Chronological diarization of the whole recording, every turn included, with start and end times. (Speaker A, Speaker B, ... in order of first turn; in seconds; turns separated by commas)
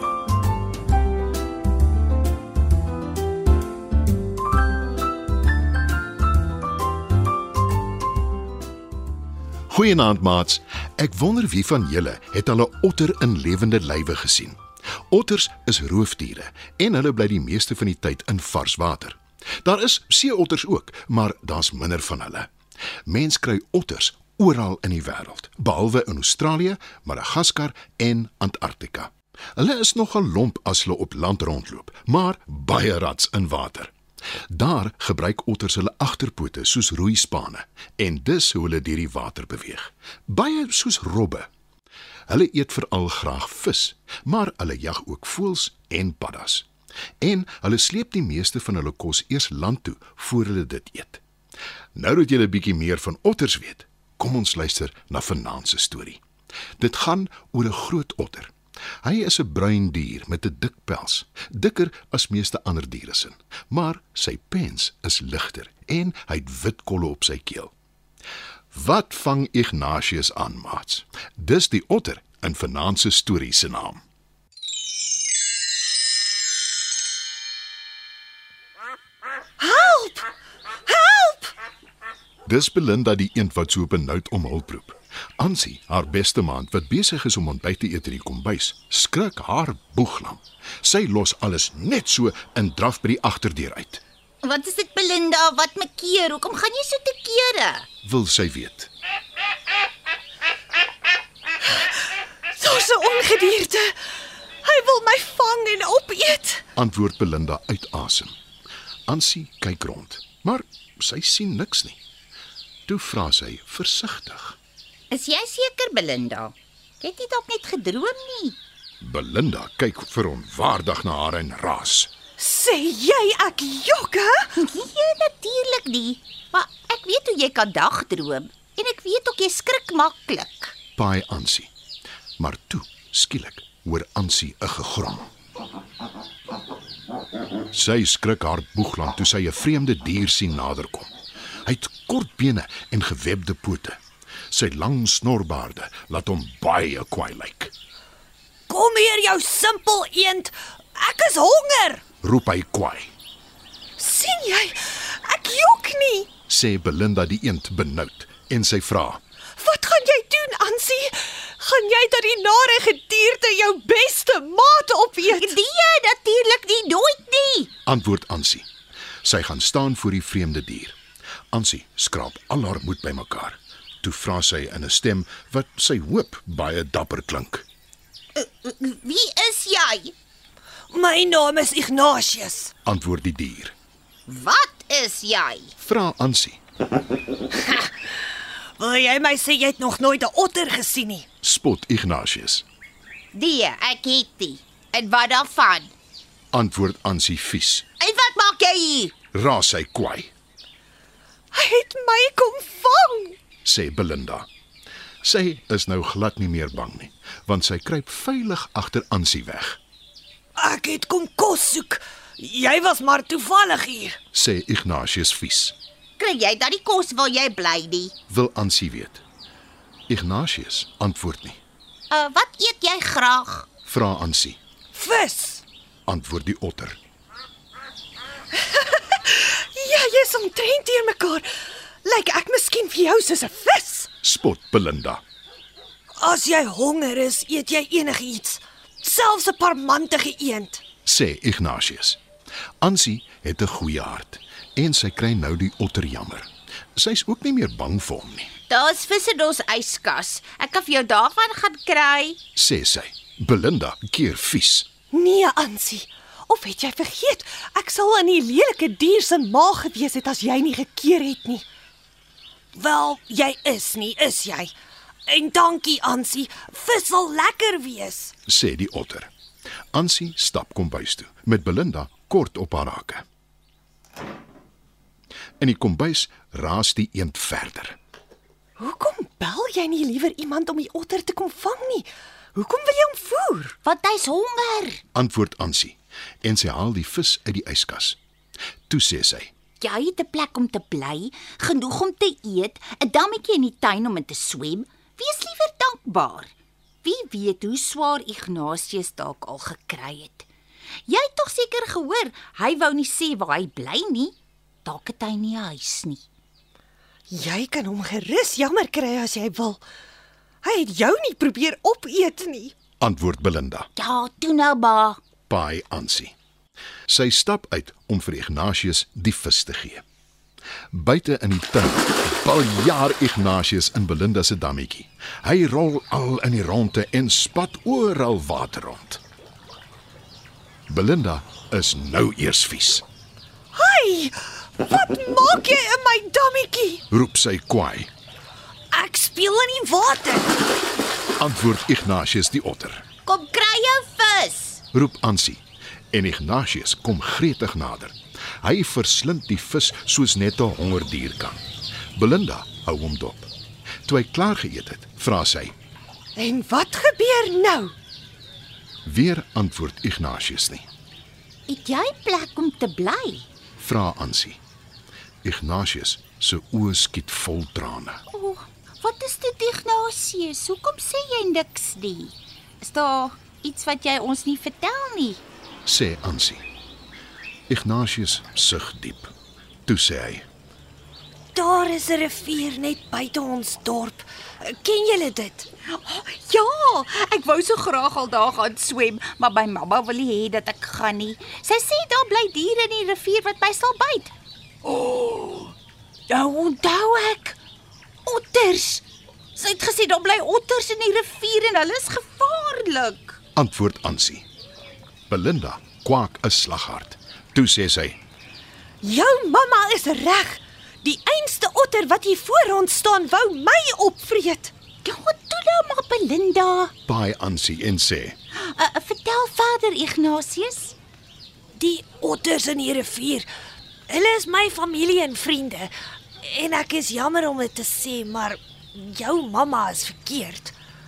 Speaker A: 9.7-22.5, Speaker A: 23.1-33.9, Speaker A: 34.5-41.5, Speaker A: 42.3-46.7, Speaker A: 47.2-51.2, Speaker A: 52.0-56.2, Speaker A: 56.8-58.5, Speaker A: 59.0-67.7, Speaker A: 68.7-74.0, Speaker B: 79.6-80.3, Speaker B: 80.9-81.5, Speaker A: 82.5-94.0, Speaker C: 94.4-97.9, Speaker A: 98.0-98.9, Speaker B: 102.6-104.0, Speaker B: 104.6-106.7, Speaker A: 106.8-108.4, Speaker A: 109.1-112.0, Speaker A: 112.9-114.6, Speaker C: 115.1-118.6, Speaker A: 119.0-122.1, Speaker B: 122.4-124.5, Speaker C: 124.6-130.8, Speaker A: 131.0-131.7, Speaker A: 132.4-135.2, Speaker A: 137.7-141.1, Speaker A: 141.7-144.0, Speaker A: 144.5-147.7, Speaker B: 148.7-152.0, Speaker A: 152.2-153.1, Speaker B: 154.0-156.3, Speaker A: 156.5-159.2, Speaker B: 159.6-165.6, Speaker C: 165.3-167.7, Speaker A: 167.9-168.7, Speaker A: 169.2-171.0, Speaker A: 171.5-177.7, Speaker C: 178.3-180.1, Speaker B: 180.9-182.7, Speaker A: 182.8-183.7, Speaker C: 184.3-185.7, Speaker A: 185.8-186.6, Speaker B: 187.5-187.9, Speaker B: 188.8-191.2, Speaker A: 191.4-192.7, Speaker C: 193.3-195.9, Speaker A: 196.5-197.9, Speaker C: 198.0-199.1, Speaker A: 199.3-200.3, Speaker B: 201.5-203.4, Speaker A: 203.6-204.5, Speaker A: 205.2-209.8, Speaker B: 210.6-214.2, Speaker A: 214.3-215.8, Speaker C: 216.2-218.1, Speaker A: 218.3-219.2, Speaker A: 220.1-221.6, Speaker C: 222.1-223.7, Speaker A: 223.9-224.6, Speaker B: 224.9-225.6, Speaker A: 226.1-227.0, Speaker B: 228.5-231.5, Speaker B: 232.1-234.1, Speaker A: 234.2-235.2, Speaker B: 236.2-240.8, Speaker A: 241.1-242.2, Speaker A: 242.8-248.5, Speaker C: 248.7-252.4, Speaker A: 252.6-254.9, Speaker B: 255.1-261.6, Speaker B: 262.7-264.7, Speaker B: 265.3-268.3, Speaker A: 268.5-269.3, Speaker A: 269.9-273.2, Speaker A: 275.6-278.0, Speaker B: 278.8-283.8, Speaker C: 283.8-285.0, Speaker A: 285.1-288.2, Speaker A: 288.9-289.5, Speaker C: 289.8-296.5, Speaker C: 297.0-300.5, Speaker C: 301.1-306.2, Speaker B: 307.3-309.8, Speaker B: 310.6-312.7, Speaker A: 313.0-313.9, Speaker C: 314.0-315.2, Speaker A: 315.5-316.3, Speaker A: 317.1-320.0, Speaker A: 320.9-329.2, Speaker A: 330.9-333.0, Speaker B: 333.7-337.0, Speaker A: 337.1-338.1, Speaker B: 338.9-340.5, Speaker A: 341.4-343.0, Speaker C: 343.2-344.8, Speaker A: 344.9-345.6, Speaker A: 346.1-351.6, Speaker A: 352.1-353.5, Speaker A: 354.1-355.7, Speaker B: 356.4-357.9, Speaker A: 359.1-360.9, Speaker C: 361.7-363.5, Speaker A: 363.8-364.6, Speaker A: 365.4-368.2, Speaker C: 368.3-375.4, Speaker A: 375.9-376.6, Speaker A: 377.7-379.3, Speaker A: 379.9-380.5, Speaker B: 381.5-385.7, Speaker C: 386.0-394.3, Speaker C: 394.9-395.7, Speaker C: 396.3-397.6, Speaker C: 398.2-399.0, Speaker C: 399.6-403.4, Speaker A: 403.6-404.5, Speaker A: 405.3-408.2, Speaker B: 409.0-414.7, Speaker C: 415.0-416.9, Speaker A: 417.1-418.4, Speaker C: 418.6-420.9, Speaker B: 421.8-423.5, Speaker B: 424.1-430.8